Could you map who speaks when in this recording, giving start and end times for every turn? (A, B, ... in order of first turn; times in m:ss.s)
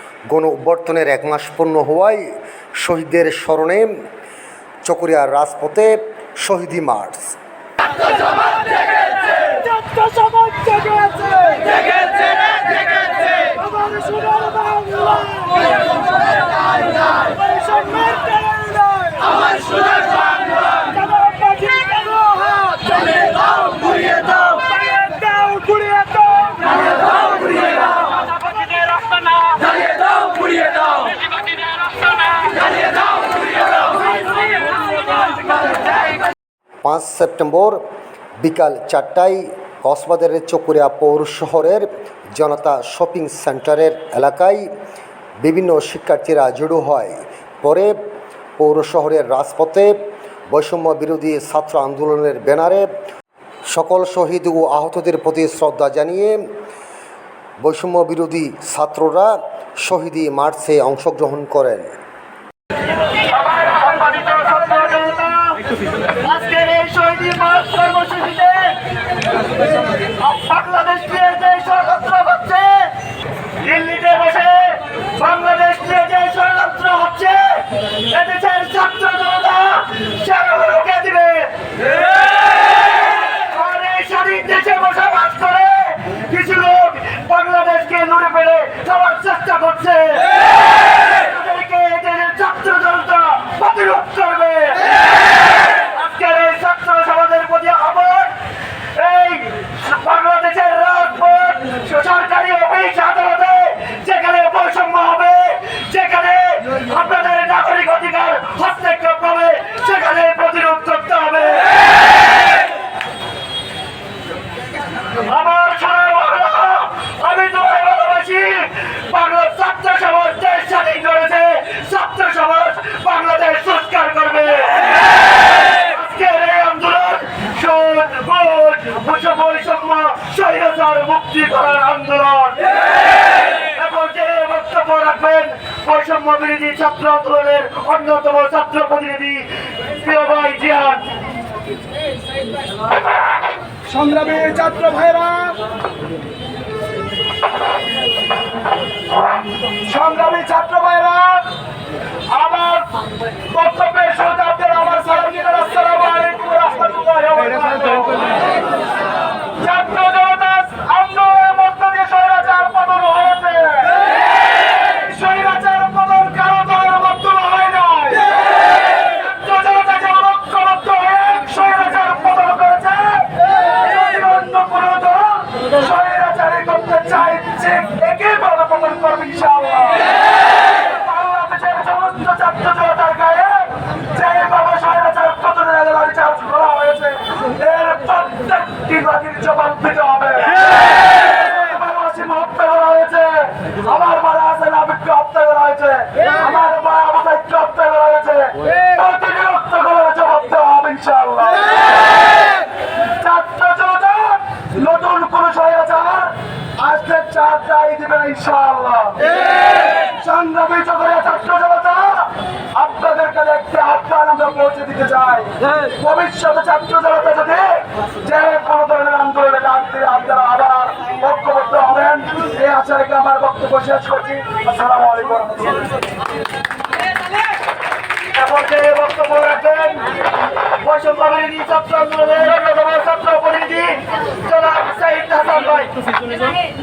0:00.3-0:02.2 A
0:02.8-0:03.9 A
0:04.8-0:07.4 A
0:09.8-0:11.7 B
0:13.4-0:15.4 B
0:17.6-0:19.3 B
0:21.6-0:22.5 B
0:24.8-0:26.5 B
0:36.8-0:37.8 A
0:38.4-0:44.7 A
0:45.4-0:47.9 A
0:48.6-0:49.9 A
0:50.5-0:52.9 A
0:53.7-0:56.4 A
0:57.6-1:01.9 A
1:03.2-1:05.6 C
1:06.2-1:08.8 C
1:09.6-1:12.9 C
1:13.6-1:38.3 C
1:38.9-1:52.5 C
1:55.2-2:21.1 C
2:23.9-2:25.6 B
2:29.9-2:31.4 B
2:32.4-2:32.8 B
2:33.5-2:35.3 C
2:33.7-2:37.7 B
2:35.9-2:38.3 C
2:39.6-2:44.1 B
2:43.0-2:43.6 C
2:44.8-2:48.3 B
2:49.0-2:49.9 B
2:49.1-2:50.7 C
2:50.5-2:52.3 B
2:51.3-2:55.7 C
2:53.8-2:54.7 B
2:55.7-3:00.1 B
3:00.7-3:22.6 B
3:23.2-3:45.9 B
3:48.3-3:50.1 C
3:50.8-3:56.0 C